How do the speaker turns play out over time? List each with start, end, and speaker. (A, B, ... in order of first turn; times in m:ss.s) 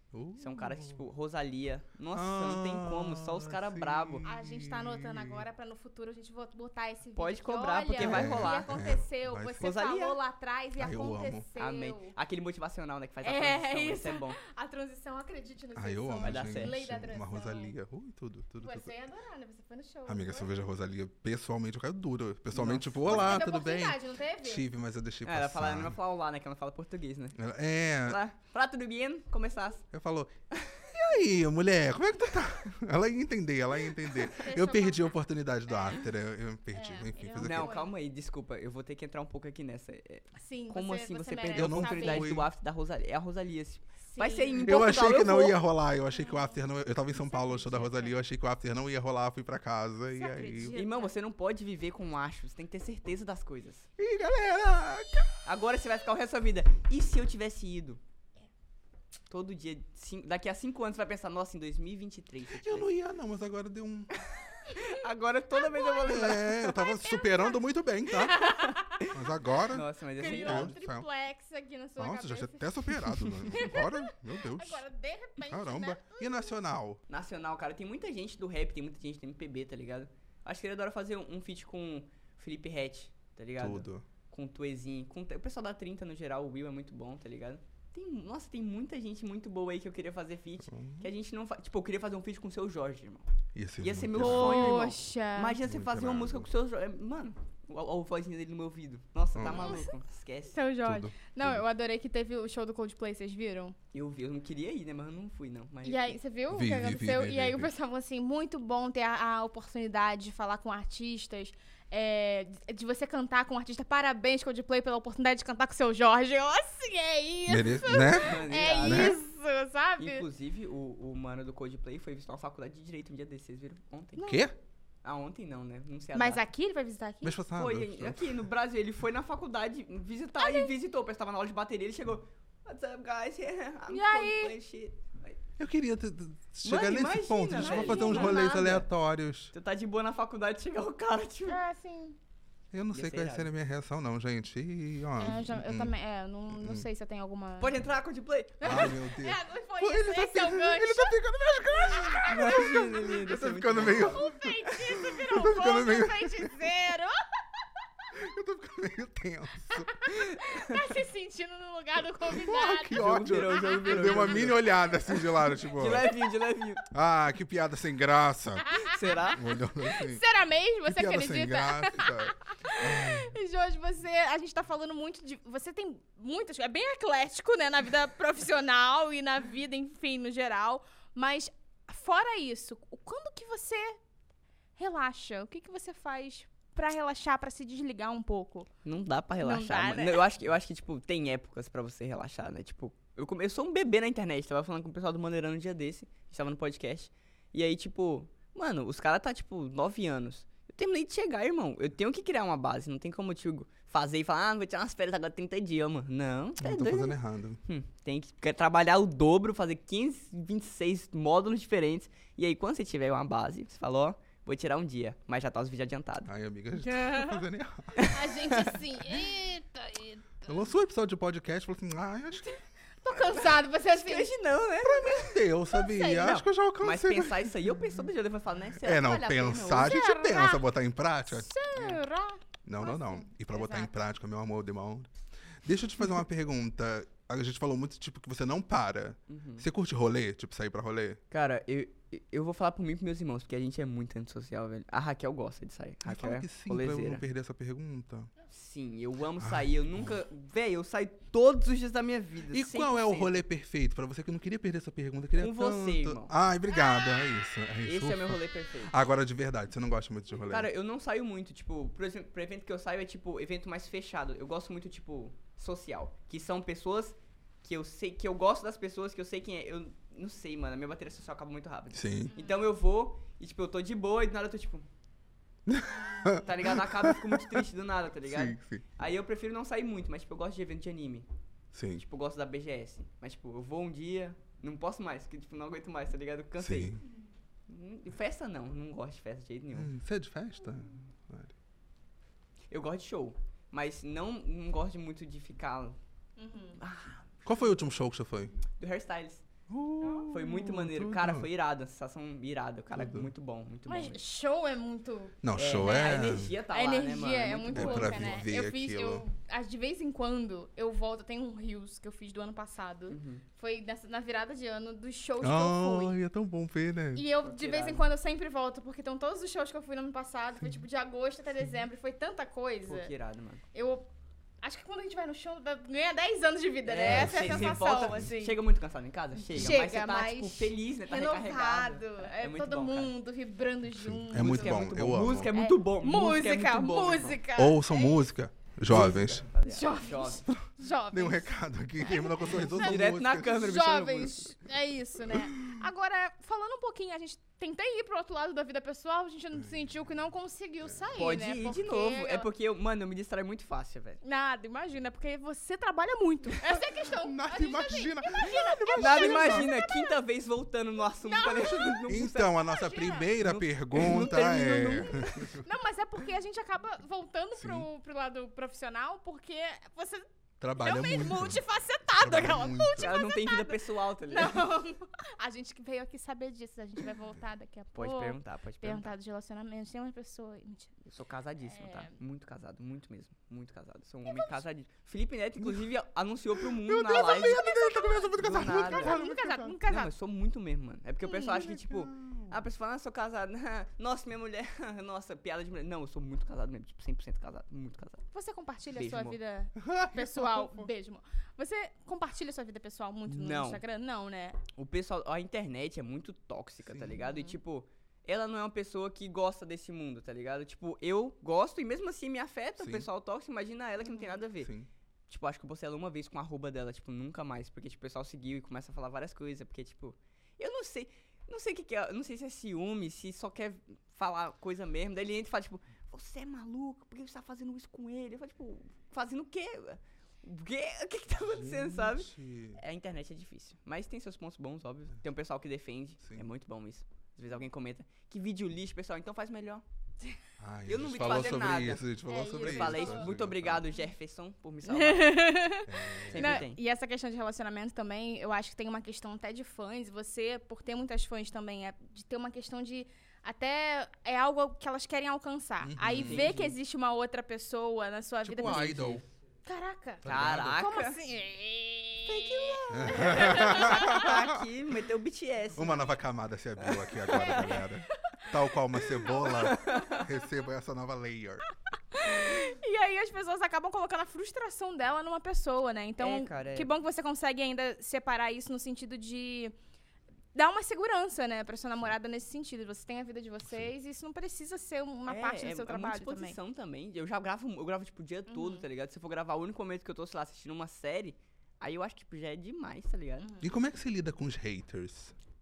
0:00.1-0:01.0 A
0:00.4-0:04.2 B
0:02.1-0:05.4 A
0:04.2-0:12.2 C
0:07.2-0:08.8 B
0:08.0-0:09.8 A
0:09.6-0:10.2 B
0:10.8-0:11.5 A
0:11.6-0:14.4 B
0:13.2-0:17.7 C
0:15.8-0:18.9 A
0:16.2-0:16.8 B
0:18.6-0:20.5 C
0:20.1-0:26.0 A
0:22.5-0:23.5 B
0:23.1-0:24.7 C
0:25.2-0:27.4 B
0:27.4-0:28.2 A
0:28.1-0:29.8 B
0:29.9-0:30.3 A
0:30.5-0:30.9 B
0:30.9-0:37.7 A
0:34.1-0:35.2 C
0:35.7-0:36.0 C
0:36.7-0:37.9 C
0:37.4-0:45.6 B
0:40.4-0:42.4 C
0:41.5-0:42.5 A
0:44.0-0:44.8 C
0:44.6-0:50.8 A
0:46.1-0:46.6 C
0:47.2-0:48.2 C
0:50.2-0:51.1 C
0:50.7-0:53.9 B
0:54.0-0:55.3 A
0:55.4-0:58.0 B
0:59.3-1:02.9 B
1:02.6-1:04.1 A
1:04.2-1:06.7 B
1:05.8-1:06.0 C
1:06.0-1:08.6 A
1:06.6-1:07.6 C
1:08.2-1:09.0 C
1:08.6-1:10.7 B
1:09.1-1:11.0 A
1:10.2-1:16.6 C
1:12.0-1:14.9 A
1:15.4-1:17.0 A
1:17.1-1:33.3 B
1:23.6-1:24.1 A
1:30.6-1:31.1 A
1:33.5-1:34.9 A
1:33.8-1:40.6 B
1:34.2-1:35.6 C
1:35.6-1:36.5 A
1:39.3-1:39.8 A
1:39.5-1:39.9 C
1:40.5-1:43.8 C
1:40.8-1:41.6 A
1:43.9-1:46.2 B
1:45.8-2:00.3 C
1:46.5-1:47.7 A
1:57.5-1:59.2 A
1:58.2-1:59.2 B
2:00.0-2:04.4 B
2:04.2-2:04.6 A
2:05.0-2:06.4 B
2:06.1-2:07.4 C
2:07.2-2:08.4 A
2:07.6-2:15.4 B
2:10.4-2:10.7 C
2:13.9-2:14.6 C
2:15.6-2:19.5 A
2:16.6-2:18.9 B
2:17.5-2:18.4 C
2:19.5-2:21.6 B
2:21.5-2:22.2 C
2:22.7-2:25.9 A
2:22.9-2:23.5 B
2:25.2-2:27.8 C
2:26.5-2:26.9 A
2:27.6-2:29.0 B
2:28.6-2:31.2 C
2:28.6-2:36.6 A
2:31.8-2:32.3 C
2:32.2-2:34.3 B
2:33.8-2:37.2 C
2:38.1-2:39.9 A
2:39.7-2:44.5 C
2:40.4-2:40.8 B
2:42.3-2:46.1 A
2:42.9-2:46.8 B
2:46.9-2:48.8 A
2:48.6-3:04.0 C
2:48.8-2:49.4 B
2:49.3-2:50.2 A
2:50.9-2:53.4 A
3:04.8-3:08.7 C
3:08.8-3:36.3 B
3:09.4-3:10.3 C
3:26.6-3:27.6 A
3:36.3-3:38.1 A
3:36.8-3:37.4 C
3:38.0-3:38.8 B
3:38.1-3:40.6 C
3:40.5-3:42.5 A
3:42.5-3:44.3 C
3:43.1-3:43.4 A
3:43.9-3:45.4 B
3:44.8-3:47.6 A
3:45.7-3:46.4 C
3:46.1-3:50.0 B
3:48.8-3:51.5 A
3:49.8-3:50.6 C
3:51.3-3:53.9 C
3:52.6-3:55.1 A
3:55.6-4:01.2 A
3:59.3-3:59.7 B
4:01.3-4:07.2 B
4:06.0-4:08.3 A
4:08.5-4:13.4 B
4:09.4-4:10.2 A
4:12.5-4:20.7 A
4:15.4-4:16.3 B
4:16.7-4:17.3 C
4:17.8-4:18.9 B
4:20.5-4:34.8 B
4:31.9-4:32.3 A
4:32.3-4:32.6 C
4:35.7-4:37.7 A
4:35.9-4:36.4 C
4:36.4-4:41.3 B
4:38.2-4:38.8 A
4:41.7-4:42.0 A
4:42.0-4:47.0 B
4:46.6-4:47.0 A
4:47.7-4:49.9 B
4:49.7-4:51.5 A
4:52.7-4:56.0 B
4:56.4-4:56.8 C
4:56.8-4:57.5 B
4:57.4-4:58.6 A
4:58.8-4:59.4 B
4:59.7-5:01.5 A
5:00.0-5:00.3 C
5:00.3-5:04.2 B
5:02.9-5:03.3 A
5:03.9-5:16.2 C
5:05.4-5:06.6 A
5:05.5-5:08.4 B
5:07.7-5:09.2 A
5:13.1-5:13.4 B
5:15.4-5:17.2 A
5:17.1-5:23.1 C
5:17.4-5:18.0 B
5:22.9-5:23.6 B
5:23.7-5:24.1 C
5:24.6-5:28.6 C
5:26.9-5:33.1 B
5:27.0-5:28.3 A
5:29.5-5:38.2 C
5:34.0-5:35.5 A
5:34.3-5:37.4 B
5:37.6-5:39.5 A
5:38.9-5:40.5 B
5:39.6-5:52.5 C
5:40.5-5:43.7 A
5:42.5-5:44.5 B
5:45.3-5:45.8 A
5:51.2-5:54.2 B
5:54.2-6:00.2 C
5:57.0-5:59.7 A
5:59.0-6:02.5 B
6:01.2-6:03.3 C
6:01.5-6:05.6 A
6:03.3-6:05.6 B
6:05.6-6:10.3 C
6:07.6-6:07.9 A
6:10.6-6:11.6 A
6:10.8-6:21.0 C
6:12.2-6:13.1 A
6:13.0-6:14.7 B
6:18.0-6:19.1 B
6:21.1-6:27.6 B
6:21.6-6:22.2 C
6:24.3-6:24.6 C
6:25.6-6:25.8 A
6:26.6-6:29.8 A
6:27.2-6:30.1 C
6:28.4-6:29.2 B
6:29.8-6:38.2 B
6:31.2-6:31.8 C
6:31.7-6:32.6 A
6:38.3-6:44.6 C
6:38.9-6:39.4 B
6:39.8-6:40.9 A
6:43.3-6:43.8 B
6:44.8-6:54.7 B
6:46.8-6:47.3 A
6:47.3-6:47.6 C
6:52.8-6:53.1 A
6:54.0-6:54.4 C
6:54.6-6:54.9 A
6:55.3-7:19.8 B
7:11.4-7:12.8 A
7:20.6-7:23.9 A
7:20.9-7:22.0 B
7:22.3-7:23.3 C
7:22.6-7:25.5 B
7:24.9-7:39.2 C
7:25.9-7:26.7 A
7:26.3-7:26.8 B
7:35.8-7:36.5 A
7:36.2-7:36.7 B
7:38.4-7:39.2 A
7:38.6-7:39.2 B
7:39.7-7:44.3 C
7:40.2-7:40.8 A
7:40.2-7:41.2 B
7:42.3-7:46.0 B
7:42.9-7:44.6 A
7:45.8-7:51.6 A
7:46.8-7:47.7 B
7:47.3-7:48.5 C
7:49.2-7:50.3 C
7:49.5-7:50.2 B
7:52.1-7:59.8 C
7:56.2-7:56.9 B
8:00.6-8:06.6 C
8:05.3-8:13.5 B
8:08.5-8:08.8 C
8:13.6-8:15.3 A